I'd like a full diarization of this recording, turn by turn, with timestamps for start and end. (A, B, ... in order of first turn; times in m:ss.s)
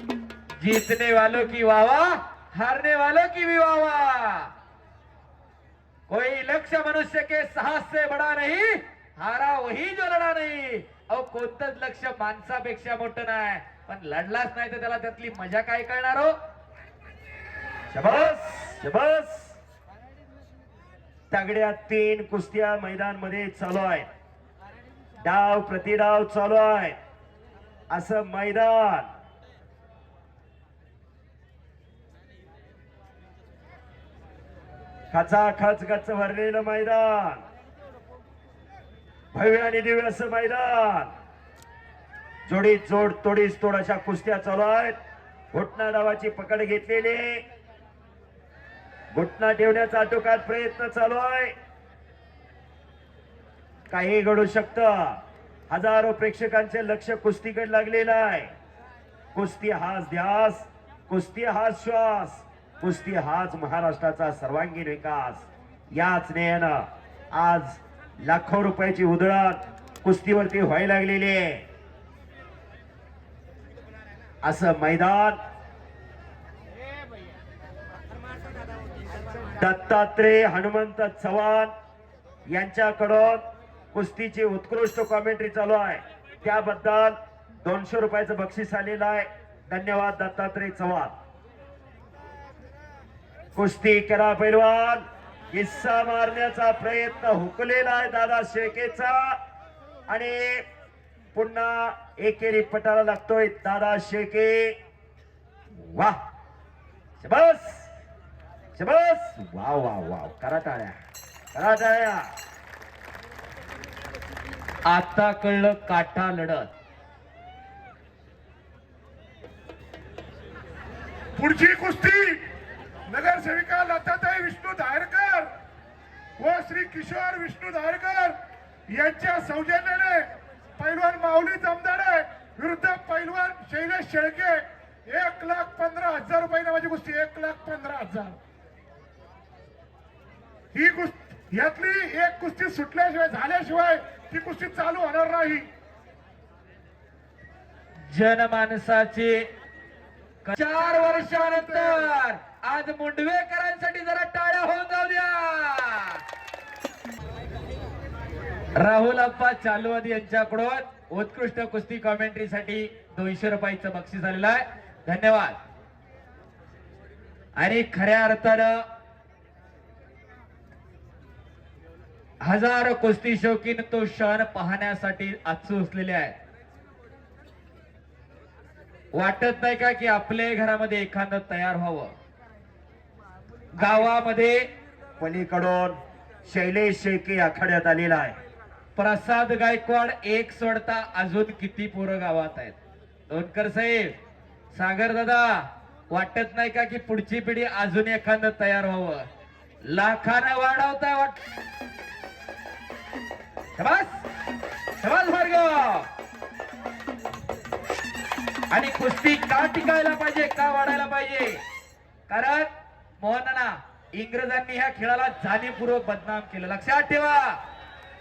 0:00.6-0:04.5 A
0:06.1-0:16.3 A
0:17.9-0:19.6 B
0:21.3-0:24.1 B
0:25.2-0:27.0 B
0:27.9-0:29.1 B
0:35.1-0:37.4 B
0:39.3-0:41.1 B
0:42.5-0:45.0 B
0:45.5-0:47.4 B
0:49.2-0:51.5 B
0:53.9-0:58.5 B
0:59.3-1:11.6 B
1:14.4-1:15.4 B
1:19.6-1:21.7 B
1:22.5-1:23.4 B
1:23.9-1:31.1 B
1:33.6-1:39.4 B
1:40.1-1:40.6 B
1:41.3-1:44.8 B
1:45.7-1:46.2 B
1:47.2-1:47.9 B
1:48.8-1:51.0 B
1:51.5-1:52.3 B
1:54.9-1:56.7 A
2:01.4-2:02.4 C
2:03.1-2:05.5 C
2:06.4-2:08.4 C
2:08.9-2:10.3 C
2:10.8-2:18.4 C
2:20.7-2:25.7 C
2:28.1-2:29.5 A
2:30.4-2:36.2 A
2:30.7-2:32.1 C
2:38.8-2:45.6 A
2:47.6-2:48.8 A
2:52.4-2:56.4 A
2:59.1-3:02.1 A
3:03.8-3:04.1 B
3:03.8-3:04.7 A
3:05.2-3:08.4 B
3:09.0-3:12.8 A
3:13.3-3:14.2 A
3:14.7-3:19.3 A
3:19.8-3:21.4 A
3:23.8-3:24.2 A
3:25.0-3:26.1 A
3:28.7-3:31.6 A
3:32.3-3:37.6 A